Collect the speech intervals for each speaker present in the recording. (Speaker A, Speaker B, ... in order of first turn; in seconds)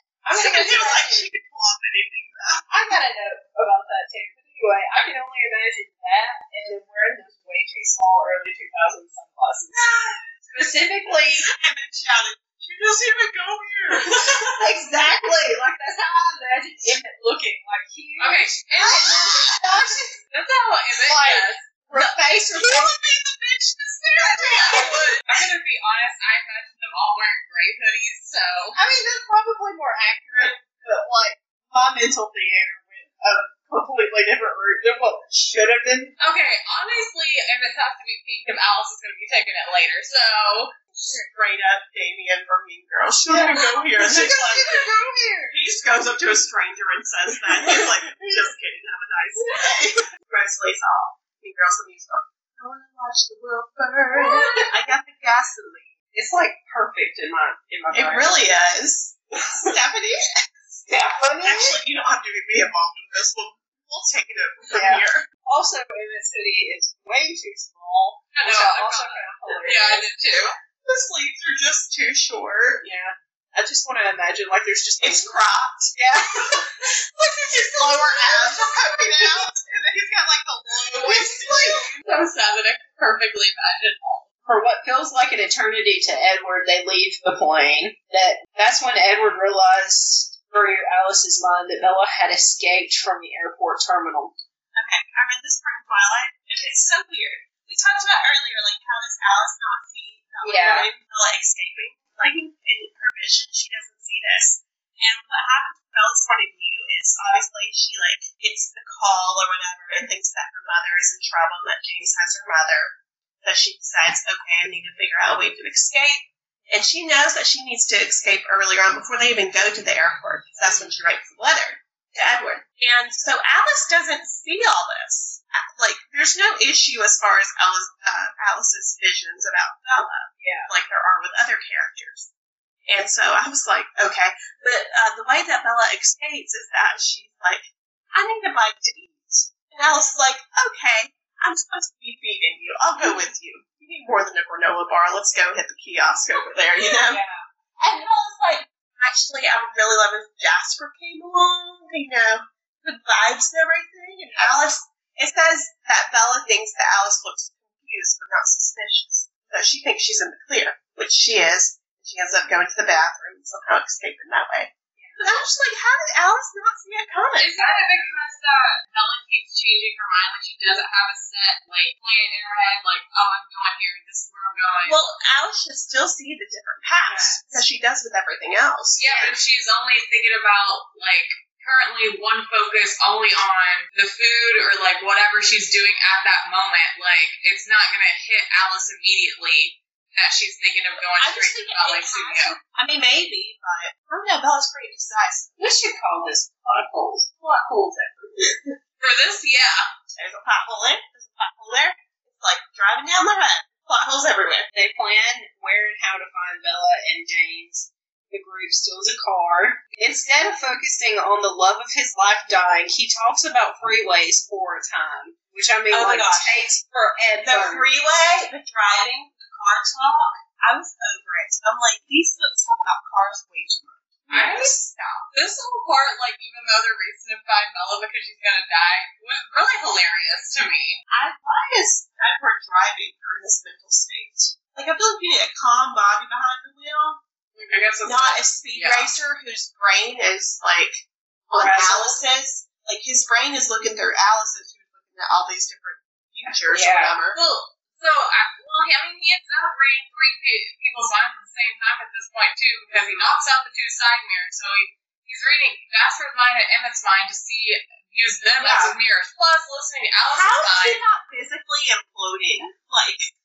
Speaker A: 0.2-1.3, 2.7-9.8, 10.5-11.5, 14.1-20.1, 21.0-22.9, 24.7-25.0, 28.8-36.1, 43.3-45.5, 49.4-49.7, 54.2-54.6, 56.1-58.4, 60.9-61.8, 64.7-70.2, 72.8-75.3, 75.9-79.4, 84.5-94.3, 100.4-100.9, 122.2-122.4, 130.4-130.7, 139.8-140.2, 143.0-143.3, 147.0-147.4, 165.0-165.3, 167.6-168.2, 177.1-177.4, 179.0-179.4, 195.6-198.5, 204.7-217.9, 237.6-237.9, 241.5-242.2, 246.7-247.2, 258.6-259.0
Speaker B: 0.3-2.6, 9.7-10.7, 11.5-14.6, 18.8-19.9, 22.6-25.2, 40.9-44.7, 45.5-55.9, 57.9-60.9, 61.4-65.3, 70.8-72.8, 75.0-76.0, 77.5-82.0, 94.8-132.3, 132.9-147.2, 147.8-167.5, 174.8-179.0, 191.2-195.6, 200.1-204.7, 215.9-216.6, 217.4-225.3, 231.1-237.2, 238.0-247.4, 252.9-253.3, 260.3-263.3
Speaker C: 18.2-19.2, 20.3-22.1, 24.3-28.8, 36.2-40.7, 43.5-44.6, 68.3-70.6, 81.0-84.3, 167.4-175.0, 179.0-192.6, 199.0-199.9, 224.3-224.8, 225.3-231.0, 237.7-239.1, 247.3-261.0